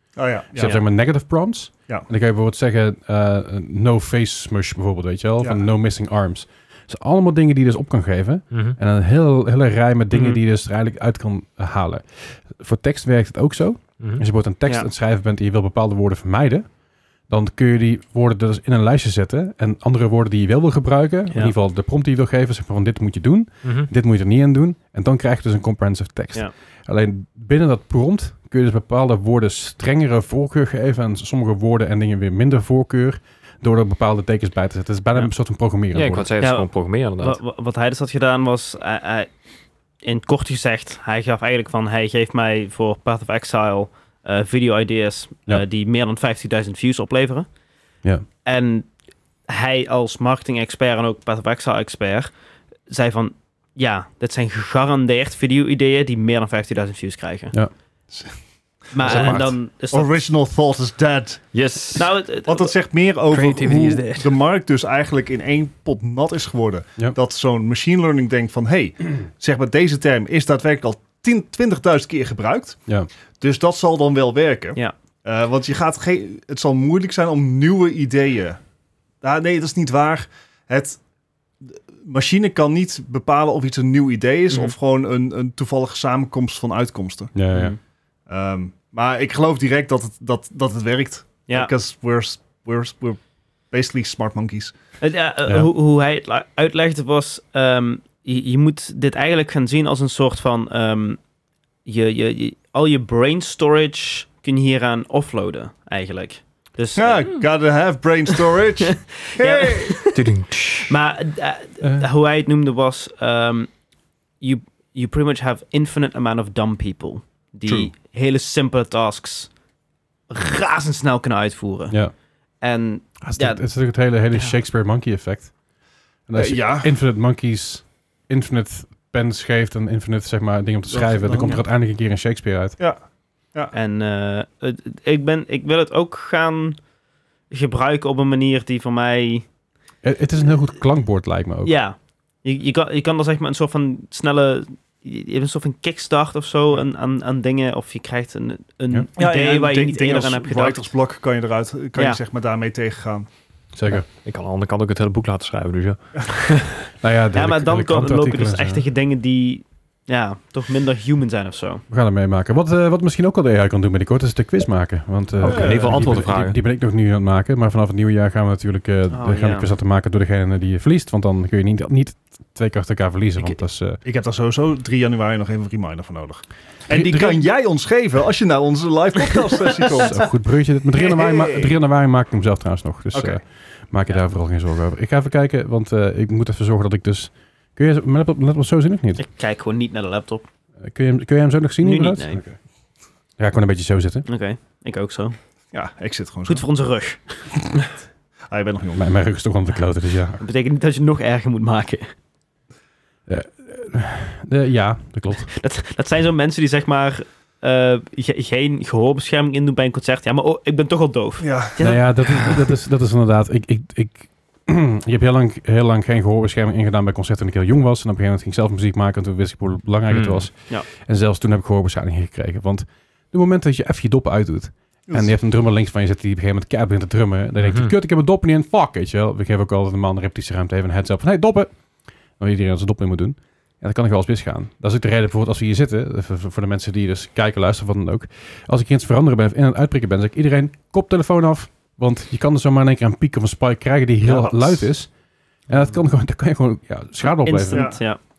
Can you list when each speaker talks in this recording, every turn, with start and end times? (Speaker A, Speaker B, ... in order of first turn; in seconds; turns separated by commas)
Speaker A: 0.2-0.8, Speaker B: 0.5-16.7, Speaker C: 8.5-8.8, Speaker C: 14.0-14.2, Speaker B: 17.3-36.3, Speaker C: 23.6-23.9, Speaker C: 35.9-37.4, Speaker D: 36.4-39.3, Speaker D: 40.0-47.5, Speaker D: 48.4-48.9, Speaker D: 49.5-52.3, Speaker D: 52.9-57.5, Speaker A: 58.1-58.4, Speaker D: 58.9-60.3, Speaker A: 58.9-61.5, Speaker C: 59.0-59.5, Speaker C: 61.5-62.1, Speaker D: 62.0-62.8, Speaker A: 62.5-72.8, Speaker C: 63.3-64.3, Speaker A: 73.4-78.6, Speaker A: 79.2-81.0, Speaker A: 81.6-87.3, Speaker D: 84.5-84.8, Speaker B: 87.3-87.8, Speaker A: 88.3-93.2, Speaker D: 91.5-91.7, Speaker A: 93.7-94.7, Speaker D: 95.0-101.2, Speaker D: 101.8-107.4, Speaker A: 107.0-110.0, Speaker D: 108.4-110.2, Speaker C: 110.1-110.9, Speaker D: 110.8-113.7, Speaker B: 111.8-112.1, Speaker D: 114.4-119.5, Speaker B: 117.7-117.9, Speaker D: 120.3-122.0, Speaker D: 122.6-123.7, Speaker B: 123.2-125.5, Speaker B: 126.3-132.8, Speaker A: 126.3-126.9, Speaker A: 130.9-131.6, Speaker D: 133.7-136.8, Speaker D: 137.5-139.5, Speaker B: 140.0-141.7, Speaker D: 141.7-150.8, Speaker A: 149.2-153.3, Speaker B: 153.7-154.1, Speaker C: 153.9-156.9, Speaker B: 157.0-158.8, Speaker D: 157.3-161.8, Speaker B: 161.9-174.0, Speaker C: 165.4-166.6, Speaker A: 165.4-166.2, Speaker D: 169.1-169.7, Speaker A: 174.0-180.2, Speaker B: 176.9-177.4, Speaker B: 180.0-189.2, Speaker A: 181.0-181.7, Speaker A: 183.1-183.4, Speaker D: 189.2-190.4, Speaker B: 190.8-192.6, Speaker D: 191.8-192.4, Speaker B: 193.4-194.3, Speaker D: 194.3-195.4, Speaker A: 195.7-196.7, Speaker D: 196.5-197.5, Speaker A: 198.5-199.1, Speaker B: 198.9-200.4, Speaker D: 200.4-202.1, Speaker B: 203.3-205.5, Speaker D: 205.5-212.7, Speaker A: 211.4-211.8, Speaker B: 211.8-231.8, Speaker C: 220.1-220.5, Speaker A: 225.1-225.3, Speaker C: 227.6-227.9, Speaker B: 232.3-245.1, Speaker A: 244.2-244.9, Speaker B: 245.7-248.0, Speaker D: 247.2-248.2, Speaker A: 247.7-248.0